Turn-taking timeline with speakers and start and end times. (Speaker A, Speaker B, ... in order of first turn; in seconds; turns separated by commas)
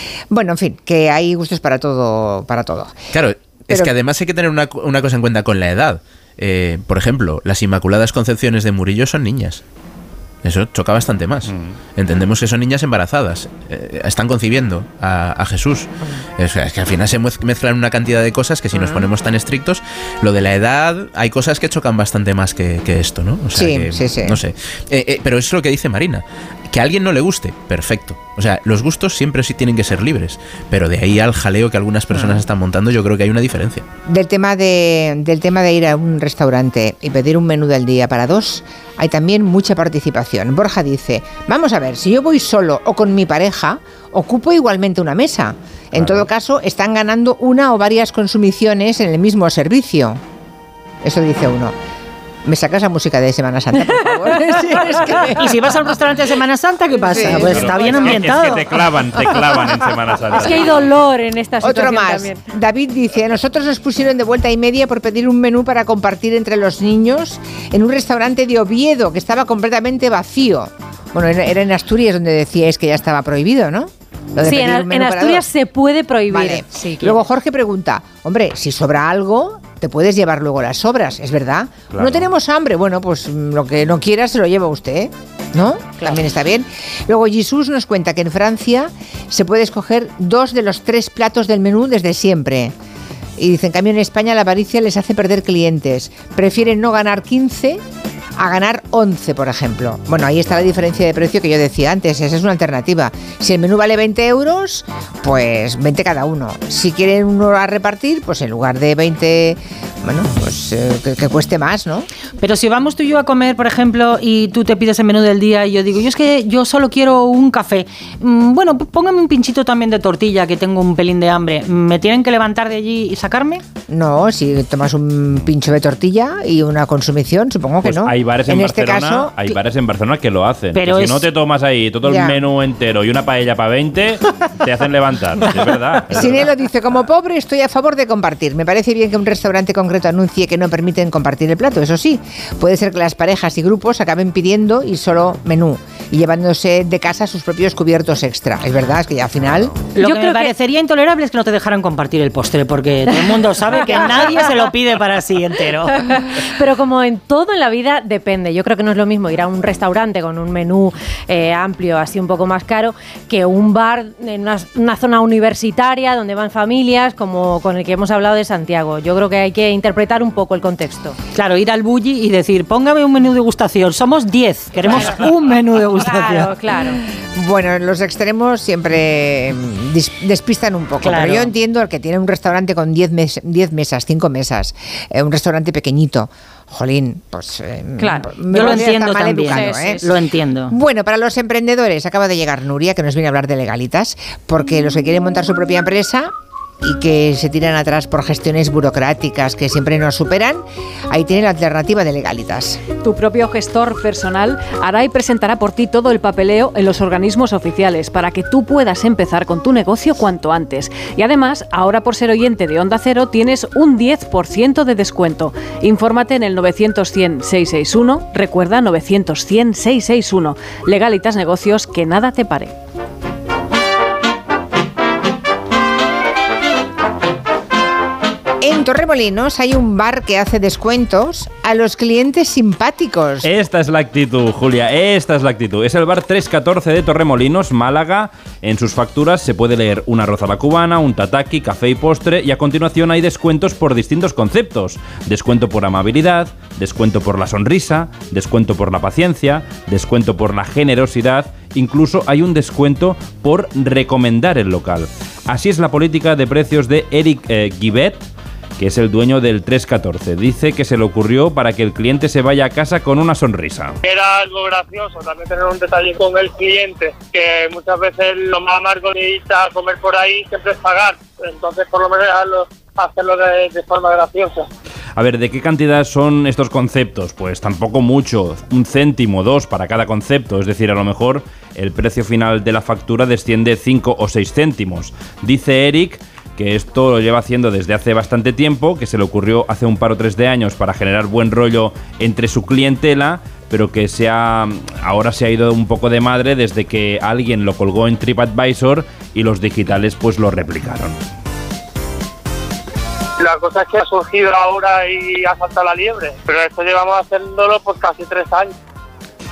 Speaker A: 0.3-2.9, Speaker B: 3.1-9.6, Speaker A: 3.7-3.9, Speaker B: 10.4-33.8, Speaker C: 11.5-11.8, Speaker A: 18.7-19.1, Speaker A: 23.5-24.4, Speaker A: 32.1-32.4, Speaker A: 34.1-50.2, Speaker A: 51.0-51.7, Speaker A: 52.4-55.5, Speaker D: 55.4-58.7, Speaker A: 57.1-57.7, Speaker C: 57.3-60.9, Speaker E: 60.3-62.4, Speaker A: 61.6-75.4, Speaker E: 74.4-77.2, Speaker A: 76.3-92.7, Speaker C: 81.9-82.2, Speaker A: 93.4-97.8, Speaker A: 98.4-112.1, Speaker D: 112.4-123.6, Speaker A: 123.9-129.3, Speaker C: 127.8-136.5, Speaker D: 130.7-131.3, Speaker A: 132.0-132.4, Speaker A: 136.1-149.8, Speaker D: 149.9-156.0, Speaker E: 150.0-150.5, Speaker E: 153.8-154.3, Speaker E: 156.1-171.2, Speaker D: 171.3-176.6, Speaker E: 174.9-175.2, Speaker E: 176.0-177.0, Speaker A: 177.3-190.0, Speaker D: 181.0-181.5, Speaker E: 188.0-188.9, Speaker D: 188.1-190.7, Speaker E: 189.5-190.0, Speaker A: 190.7-202.8, Speaker F: 203.0-222.7, Speaker A: 228.6-233.5, Speaker C: 233.4-258.2, Speaker C: 258.8-264.0, Speaker G: 264.0-274.6, Speaker C: 275.2-301.1, Speaker G: 303.4-308.7